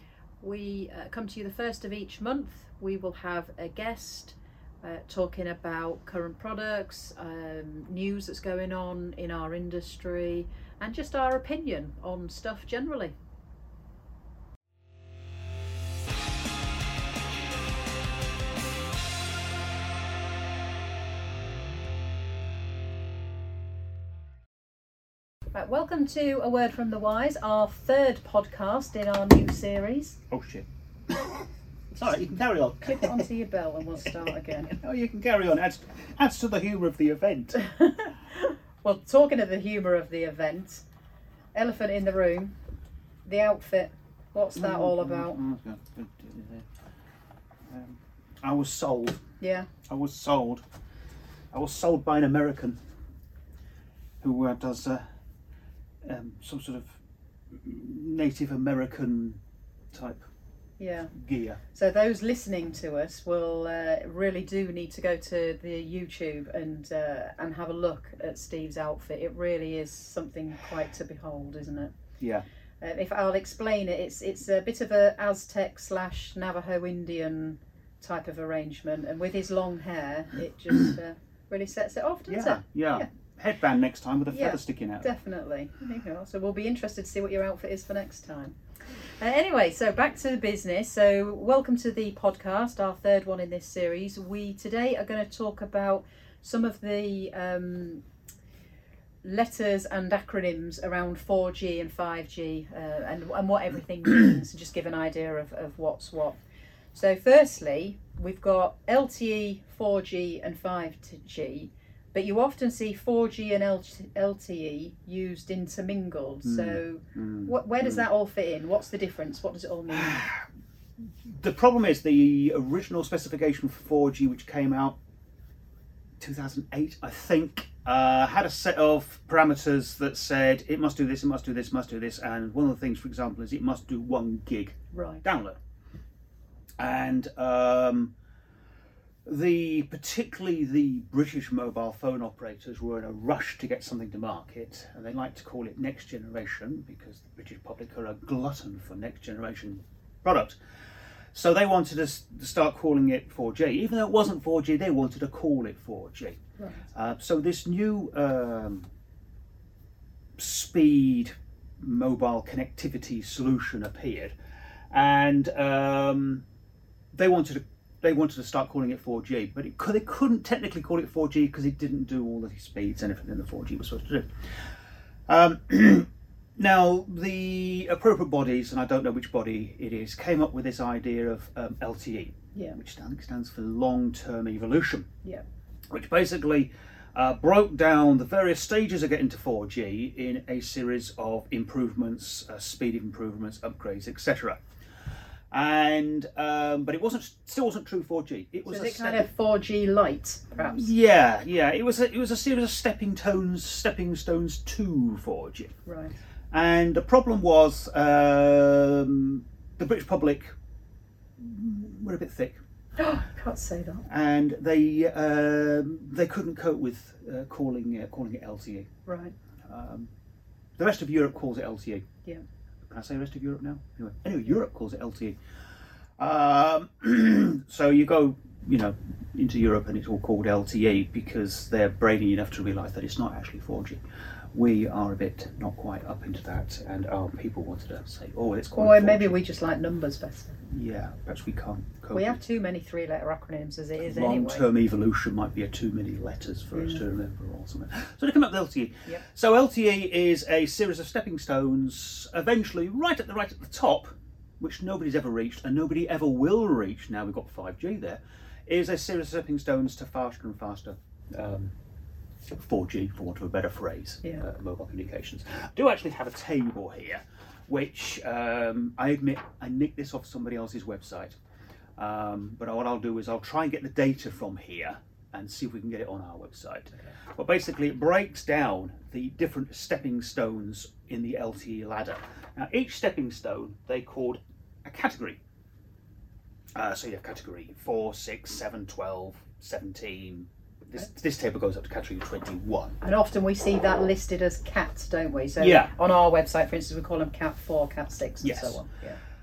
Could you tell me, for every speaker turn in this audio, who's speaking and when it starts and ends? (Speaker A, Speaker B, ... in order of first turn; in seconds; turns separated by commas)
Speaker A: 0.4-13.2, Speaker A: 25.5-30.2, Speaker B: 30.3-33.3, Speaker A: 32.8-34.7, Speaker B: 34.0-37.7, Speaker A: 37.5-40.8, Speaker A: 41.5-42.6, Speaker A: 43.2-45.4, Speaker B: 44.5-46.7, Speaker B: 47.7-49.3, Speaker A: 49.4-49.7, Speaker B: 49.8-50.6, Speaker B: 51.5-52.8, Speaker B: 54.2-55.0, Speaker B: 56.0-57.0, Speaker B: 57.5-59.4, Speaker B: 59.9-60.2, Speaker A: 60.8-61.1, Speaker B: 61.1-61.6, Speaker A: 61.7-71.9, Speaker B: 72.2-72.5, Speaker A: 72.8-83.1, Speaker B: 82.3-85.1, Speaker A: 84.3-98.0, Speaker A: 99.2-106.4, Speaker A: 106.9-120.2, Speaker B: 116.4-118.0, Speaker B: 119.9-120.4, Speaker B: 121.0-125.0, Speaker B: 126.2-135.6, Speaker A: 134.9-135.2, Speaker B: 136.8-138.1, Speaker B: 139.2-150.6, Speaker B: 151.3-156.4, Speaker A: 156.6-156.9, Speaker B: 156.9-158.9, Speaker B: 160.4-164.3, Speaker B: 164.9-166.4, Speaker B: 167.1-174.7, Speaker B: 175.3-185.1, Speaker B: 185.9-194.6, Speaker B: 195.5-199.3, Speaker A: 198.7-200.9, Speaker B: 200.6-205.7, Speaker A: 205.8-206.1, Speaker B: 206.5-210.5, Speaker B: 211.4-212.6, Speaker A: 213.0-214.0, Speaker B: 214.1-218.9, Speaker A: 219.1-219.3, Speaker B: 219.6-220.1, Speaker B: 220.8-222.1, Speaker B: 222.8-225.4, Speaker B: 226.2-234.0, Speaker B: 234.5-239.4, Speaker A: 238.8-240.6, Speaker B: 240.7-242.4, Speaker A: 242.1-244.6, Speaker B: 244.0-261.7, Speaker A: 246.7-247.0, Speaker B: 262.5-271.4, Speaker B: 272.0-285.4, Speaker B: 286.7-293.0, Speaker A: 293.0-299.2, Speaker B: 295.6-295.9, Speaker B: 298.4-298.8